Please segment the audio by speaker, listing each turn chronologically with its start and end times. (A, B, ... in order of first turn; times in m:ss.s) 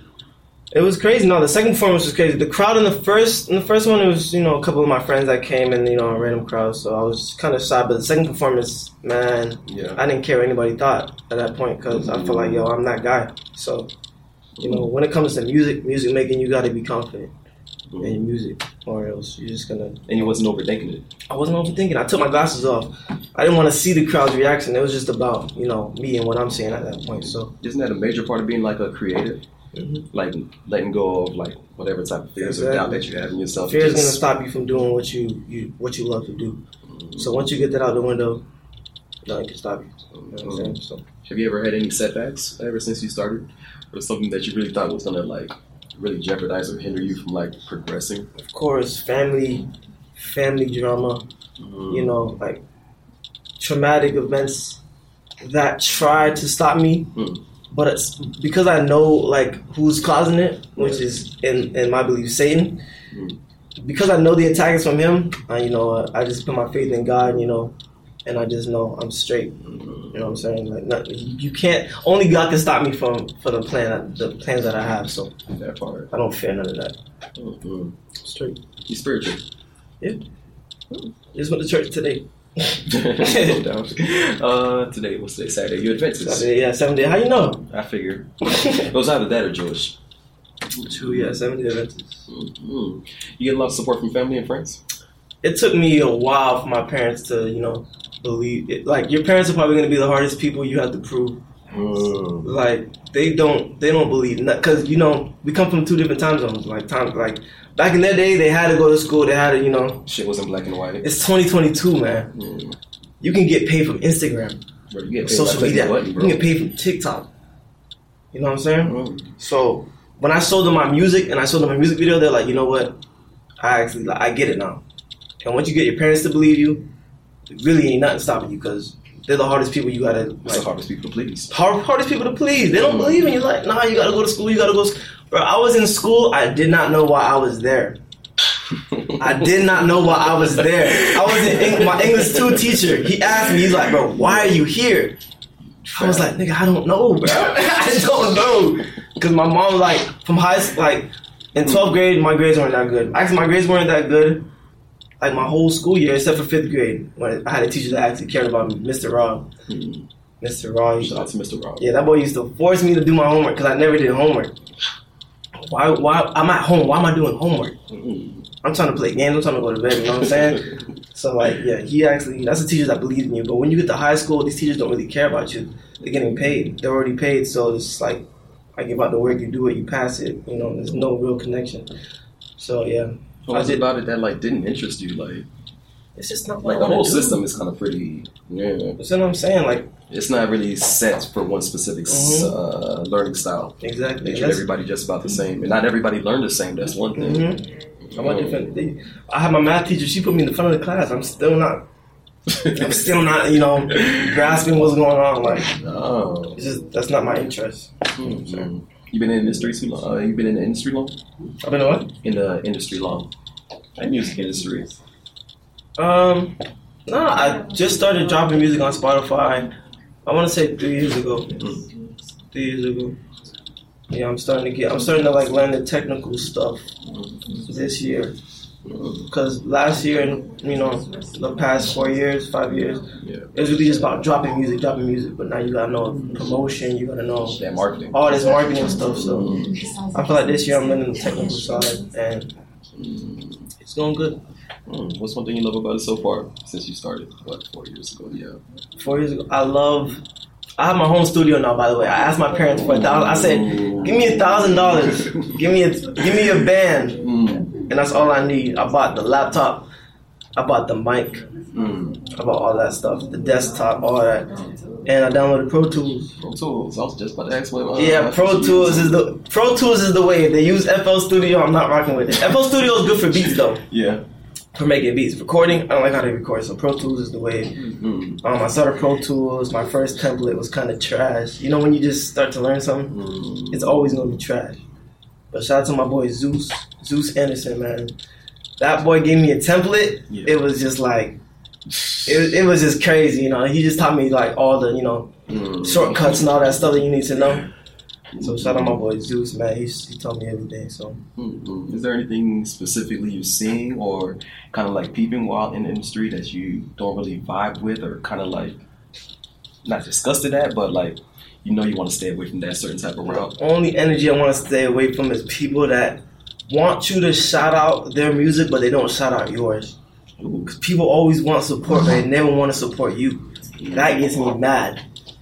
0:00.7-0:13.9 A
0:09.7-0:10.0 B
0:11.9-0:12.7 B
0:14.6-0:14.8 B
0:14.6-0:17.3 A
0:17.9-0:18.2 B
0:18.0-0:20.3 A
0:20.1-0:21.0 B
0:21.3-0:27.5 A
0:27.1-0:29.4 B
0:29.7-0:30.1 A
0:30.1-0:34.2 B
0:32.4-0:33.1 A
0:33.6-0:36.6 A
0:36.9-0:37.6 B
0:37.2-0:38.4 A
0:39.2-0:41.0 A
0:40.1-0:48.3 B
0:48.4-0:51.2 A
0:51.6-0:52.2 B
0:51.9-0:52.6 A
0:53.6-0:54.8 A
0:55.4-0:57.1 A
0:57.1-0:57.4 B
0:57.7-1:02.8 A
1:03.1-1:03.4 B
1:03.8-1:09.6 A
1:09.6-1:10.4 B
1:10.1-1:15.3 A
1:15.5-1:16.1 B
1:16.1-1:17.0 A
1:17.4-1:18.0 B
1:18.2-1:18.6 A
1:18.9-1:19.4 B
1:21.3-1:23.6 A
1:22.8-1:26.5 B
1:26.2-1:27.7 A
1:27.7-1:30.0 B
1:28.5-1:28.9 A
1:30.8-1:32.2 A
1:30.9-1:31.4 B
1:32.3-1:34.8 B
1:35.4-1:41.4 A
1:41.7-1:42.5 B
1:42.4-1:50.0 A
1:50.0-1:51.0 B
1:51.0-1:52.3 A
1:52.3-1:52.8 B
1:53.2-1:54.6 A
1:54.9-1:56.5 B
1:55.2-1:57.3 A
1:58.3-2:03.0 A
1:58.8-1:59.3 B
2:03.6-2:04.8 A
2:05.4-2:06.9 A
2:07.5-2:10.7 A
2:10.4-2:11.5 B
2:11.5-2:18.0 A
2:12.7-2:13.4 B
2:18.9-2:19.4 B
2:19.2-2:25.2 A
2:20.2-2:24.6 B
2:25.8-2:26.3 B
2:25.9-2:34.5 A
2:35.2-2:39.5 A
2:39.7-2:40.0 B
2:40.4-2:44.5 A
2:41.0-2:42.0 B
2:45.6-2:47.8 A
2:47.9-2:48.5 B
2:48.6-3:01.9 A
3:02.6-3:03.8 A
3:03.4-3:05.5 B
3:06.2-3:07.4 A
3:06.6-3:09.0 B
3:09.0-3:09.9 A
3:10.1-3:17.5 B
3:12.1-3:12.5 A
3:13.8-3:14.6 A
3:17.1-3:21.8 A
3:18.0-3:18.7 B
3:22.5-3:23.0 B
3:22.7-3:25.7 A
3:23.9-3:24.6 B
3:25.6-3:26.6 B
3:26.5-3:28.7 A
3:28.2-3:31.2 B
3:31.6-3:32.1 A
3:32.2-3:33.3 B
3:34.0-3:35.0 B
3:36.0-3:39.7 A
3:40.2-3:41.9 A
3:41.6-3:41.8 B
3:42.5-3:43.2 A
3:44.1-3:46.9 A
3:47.1-3:47.6 B
3:47.6-3:48.4 A
3:48.8-3:49.3 B
3:49.3-3:57.6 A
3:53.2-3:53.5 B
3:57.5-3:58.4 B
3:58.1-4:02.5 A
3:59.1-3:59.8 B
4:03.0-4:03.6 B
4:03.8-4:04.4 A
4:04.9-4:08.6 B
4:09.0-4:10.2 A
4:10.8-4:17.2 A
4:12.7-4:15.6 B
4:17.2-4:17.8 B
4:17.8-4:19.9 A
4:20.6-4:21.5 A
4:21.7-4:22.3 B
4:22.3-4:26.3 A
4:26.4-4:29.2 B
4:27.9-4:33.8 A
4:33.9-4:34.2 B
4:34.7-4:37.8 A
4:37.7-4:38.4 B
4:38.4-4:43.2 A
4:43.1-4:44.2 B
4:43.7-4:44.8 A
4:45.5-4:48.2 A
4:48.8-4:51.4 A
4:50.3-4:50.6 B
4:52.0-4:52.3 B
4:52.2-4:57.7 A
4:55.5-4:56.5 B
4:58.3-4:59.0 B
4:58.4-5:01.2 A
5:01.4-5:08.8 B
5:09.8-5:13.5 B
5:13.2-5:20.0 A
5:20.4-5:20.7 B
5:20.7-5:25.0 A
5:23.8-5:24.2 B